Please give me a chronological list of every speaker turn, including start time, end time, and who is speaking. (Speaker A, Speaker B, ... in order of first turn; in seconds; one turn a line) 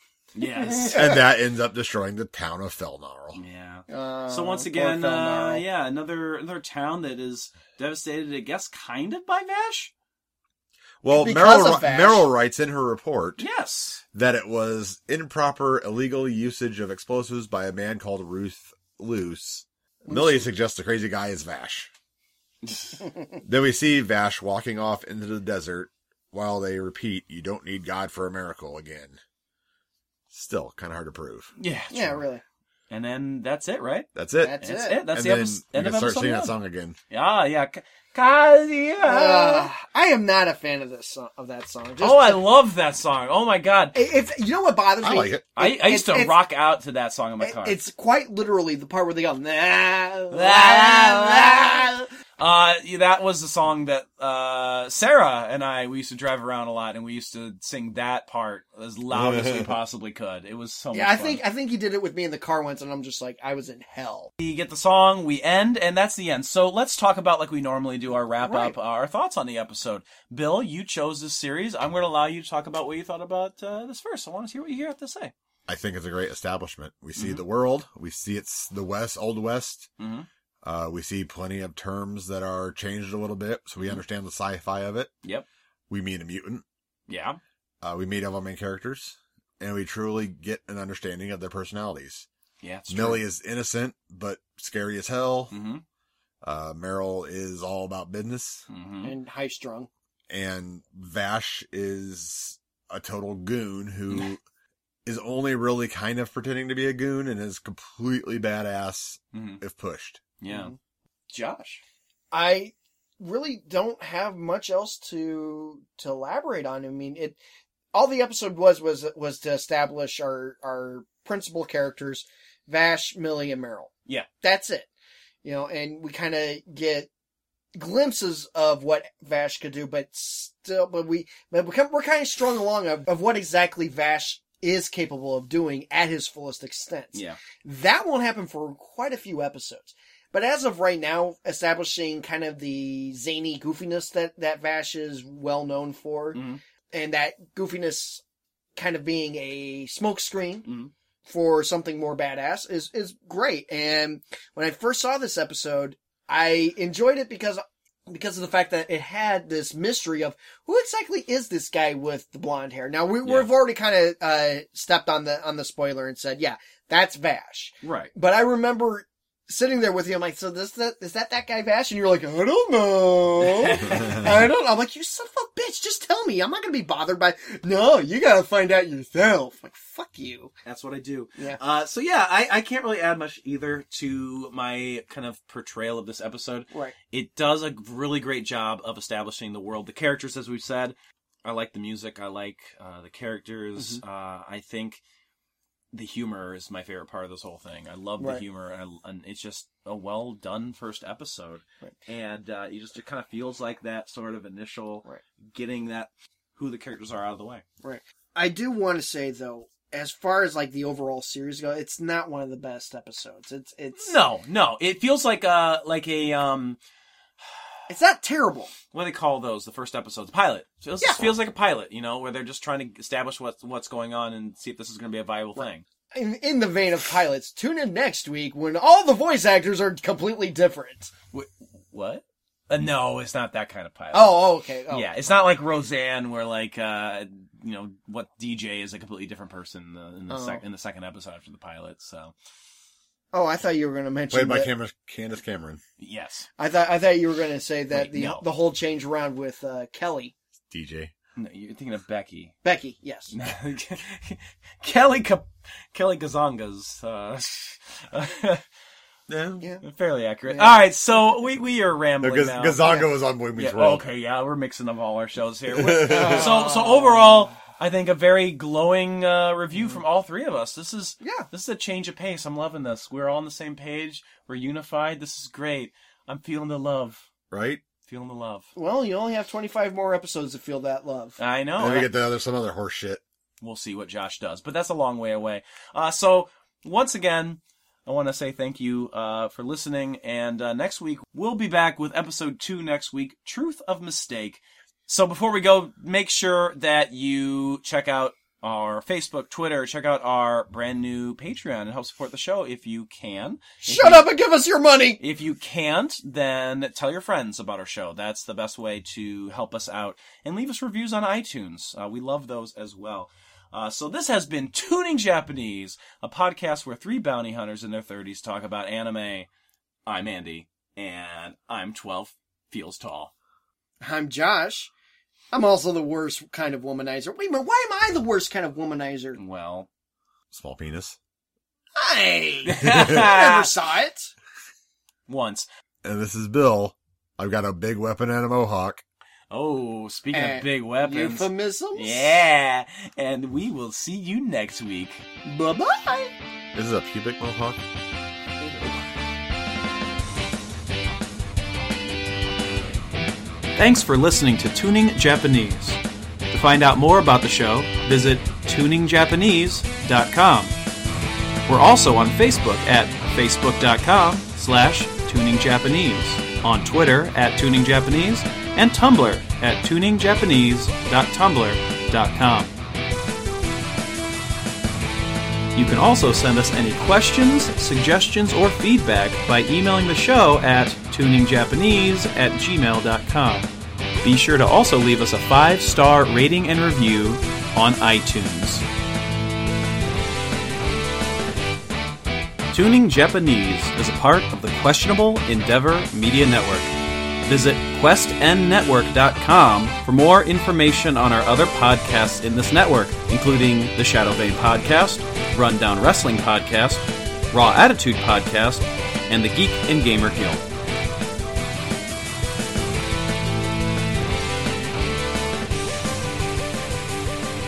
Speaker A: 0.3-1.0
Speaker B: 0.9-3.4
Speaker A: 3.4-9.9
Speaker C: 3.9-5.6
Speaker B: 11.0-13.4
Speaker C: 11.1-12.3
Speaker A: 13.4-14.0
Speaker B: 14.1-21.9
Speaker C: 20.0-20.5
Speaker A: 22.6-23.0
Speaker B: 23.4-29.2
Speaker B: 30.3-31.5
Speaker A: 31.6-32.2
Speaker C: 31.9-32.4
Speaker A: 32.9-34.1
Speaker B: 34.1-34.6
Speaker C: 34.4-35.0
Speaker A: 34.6-36.5
Speaker B: 35.1-37.0
Speaker A: 37.1-39.7
Speaker C: 39.0-42.4
Speaker A: 42.0-44.0
Speaker C: 43.9-46.4
Speaker B: 45.0-45.4
Speaker A: 45.5-47.8
Speaker C: 47.4-52.1
Speaker A: 50.3-51.9
Speaker A: 52.4-61.4
Speaker B: 59.1-59.7
Speaker C: 60.9-64.3
Speaker A: 64.4-75.3
Speaker C: 68.3-68.7
Speaker B: 75.7-79.9
Speaker A: 77.2-77.4
Speaker A: 80.0-80.3
Speaker B: 80.6-85.1
Speaker B: 85.9-86.6
Speaker A: 87.1-87.4
Speaker B: 87.8-92.3
Speaker A: 92.6-93.2
Speaker B: 92.9-95.5
Speaker A: 95.5-95.8
Speaker B: 96.4-98.6
Speaker A: 98.7-99.1
Speaker C: 99.0-99.9
Speaker B: 100.3-104.4
Speaker B: 105.0-110.2
Speaker A: 109.3-109.6
Speaker A: 110.4-110.7
Speaker C: 110.5-110.7
Speaker A: 111.3-111.8
Speaker C: 112.3-117.4
Speaker C: 117.9-124.9
Speaker C: 125.4-127.1
Speaker C: 127.7-148.2
Speaker A: 137.1-137.4
Speaker A: 146.3-146.6
Speaker C: 148.8-150.7
Speaker A: 150.6-150.9
Speaker C: 151.2-180.5
Speaker A: 163.2-163.5
Speaker A: 167.8-168.1
Speaker A: 173.4-174.3
Speaker A: 180.6-195.0
Speaker C: 193.8-194.0
Speaker A: 195.9-207.6
Speaker C: 207.8-214.2
Speaker A: 213.9-216.8
Speaker C: 217.9-218.7
Speaker A: 218.9-225.8
Speaker C: 221.0-221.3
Speaker C: 225.6-231.1
Speaker A: 231.3-242.3
Speaker C: 234.1-235.1
Speaker C: 240.3-240.6
Speaker C: 243.3-244.7
Speaker B: 244.3-245.8
Speaker A: 246.0-246.5
Speaker C: 246.6-250.3
Speaker A: 247.9-248.4
Speaker B: 250.7-251.1
Speaker A: 251.3-252.5
Speaker C: 252.6-253.3
Speaker A: 253.3-258.6
Speaker B: 259.3-259.6
Speaker A: 259.8-262.8
Speaker C: 260.5-260.8
Speaker B: 262.2-264.0
Speaker A: 263.6-277.3
Speaker B: 265.7-266.4
Speaker C: 266.0-267.4
Speaker C: 271.2-271.5
Speaker B: 277.5-277.8
Speaker A: 278.1-278.7
Speaker C: 278.8-281.4
Speaker A: 281.4-282.1
Speaker B: 281.8-283.2
Speaker A: 283.6-304.3
Speaker C: 303.8-305.2
Speaker A: 305.2-319.5
Speaker A: 320.1-323.3
Speaker C: 324.0-324.9
Speaker C: 325.5-329.4
Speaker A: 329.4-329.9
Speaker B: 330.5-331.2
Speaker C: 331.9-334.3
Speaker A: 332.6-333.7
Speaker A: 335.3-335.7
Speaker B: 336.0-339.0
Speaker A: 339.5-345.2
Speaker C: 340.3-342.4
Speaker C: 345.4-346.3
Speaker B: 346.7-347.8
Speaker C: 348.6-349.0
Speaker A: 353.8-360.8
Speaker A: 361.7-372.7
Speaker A: 375.7-383.7
Speaker A: 384.2-388.8
Speaker A: 392.7-396.9
Speaker A: 397.4-410.6